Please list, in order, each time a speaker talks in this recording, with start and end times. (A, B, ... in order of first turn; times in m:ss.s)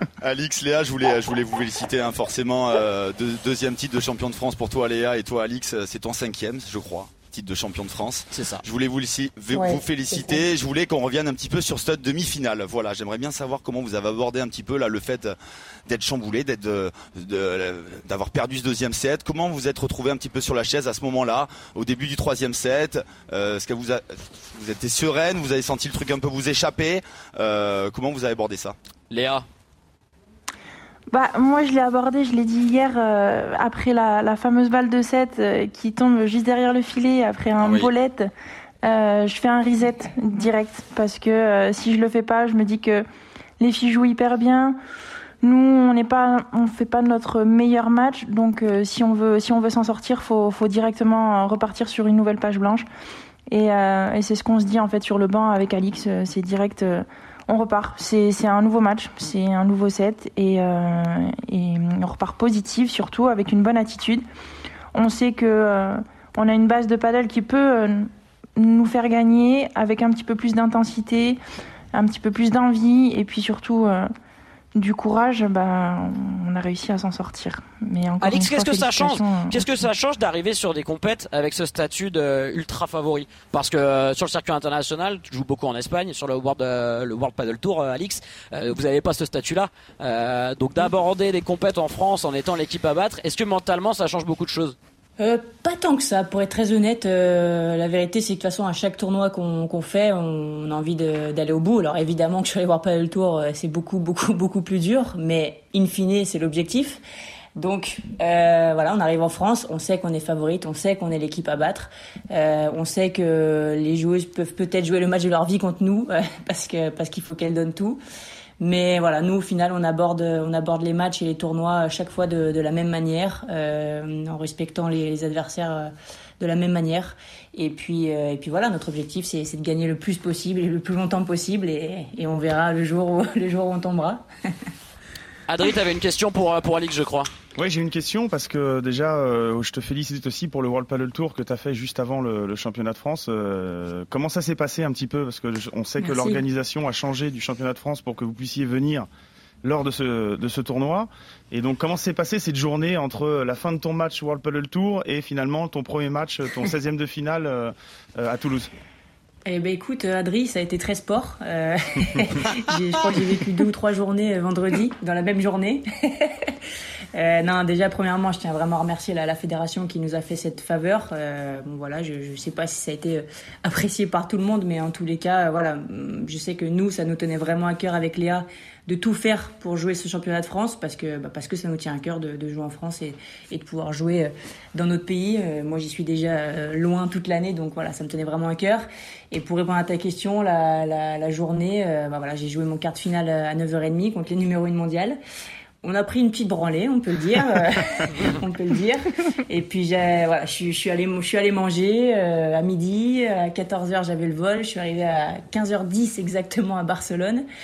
0:00.2-0:15.4 A
0:08.3-0:08.6 B
0:09.5-0:10.4 C
0:15.9-0:28.7 A
0:29.1-0:29.4 B
0:31.1-0:38.3 D
0:37.6-0:37.9 A
0:38.8-0:43.0 D
0:43.6-0:44.8 D
0:45.4-0:52.9 D
0:53.5-1:04.2 D
1:04.9-1:11.4 D
1:11.9-1:14.1 D
1:14.7-1:19.7 D
1:18.2-1:34.8 B
1:35.2-1:47.0 C
1:47.6-1:58.0 C
1:58.6-2:14.2 C
2:15.5-2:17.3 B
2:17.6-2:29.1 E
2:26.0-2:26.4 C
2:29.6-2:38.7 E
2:39.4-2:46.6 C
2:47.1-3:15.2 C
3:15.8-3:27.4 C